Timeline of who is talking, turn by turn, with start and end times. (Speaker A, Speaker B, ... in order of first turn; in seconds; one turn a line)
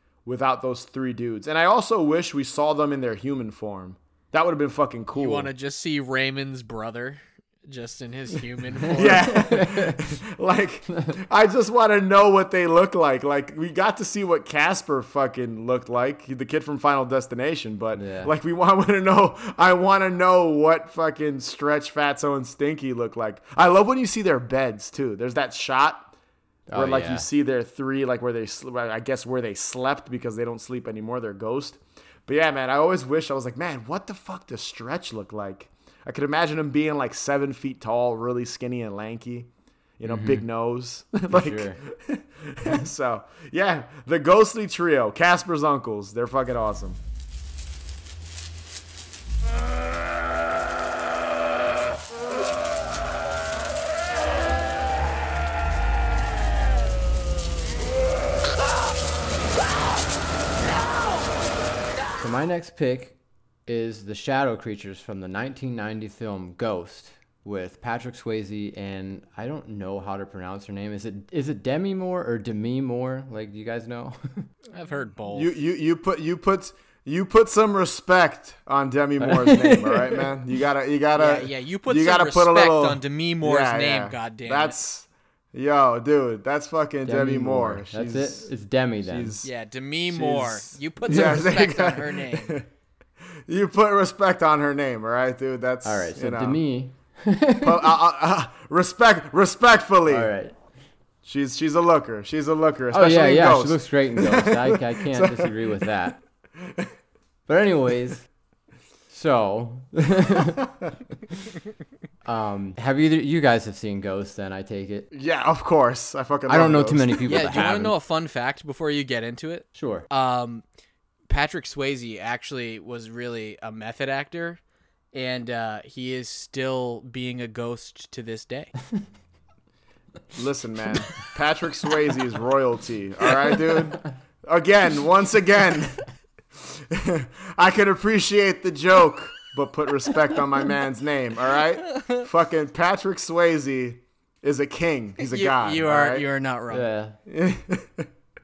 Speaker A: 0.2-5.5
Speaker B: 5.1-9.4
Speaker A: 8.9-26.1
Speaker C: 9.2-9.9
Speaker C: 17.9-18.3
Speaker C: 26.7-27.2
Speaker A: 26.7-47.0
Speaker C: 40.0-40.4
Speaker C: 41.3-41.8
Speaker C: 62.2-74.5
Speaker B: 74.7-75.5
Speaker A: 75.3-88.5
Speaker C: 79.2-80.2
Speaker B: 81.2-84.8
Speaker C: 87.0-89.3
Speaker A: 89.0-89.5
Speaker B: 89.4-92.6
Speaker A: 90.1-92.7
Speaker A: 93.5-96.6
Speaker C: 95.8-97.9
Speaker A: 97.6-100.3
Speaker C: 100.1-100.5
Speaker A: 101.2-105.9
Speaker C: 102.9-106.2
Speaker A: 106.6-106.9
Speaker C: 107.5-108.3
Speaker C: 109.1-110.6
Speaker C: 112.2-115.1
Speaker A: 115.1-117.5
Speaker C: 116.5-117.9
Speaker B: 117.2-120.6
Speaker C: 119.7-120.1
Speaker B: 121.3-124.6
Speaker B: 125.1-128.7
Speaker A: 130.3-136.1
Speaker A: 136.6-146.2
Speaker B: 145.2-146.9
Speaker C: 146.7-147.2
Speaker A: 147.3-148.1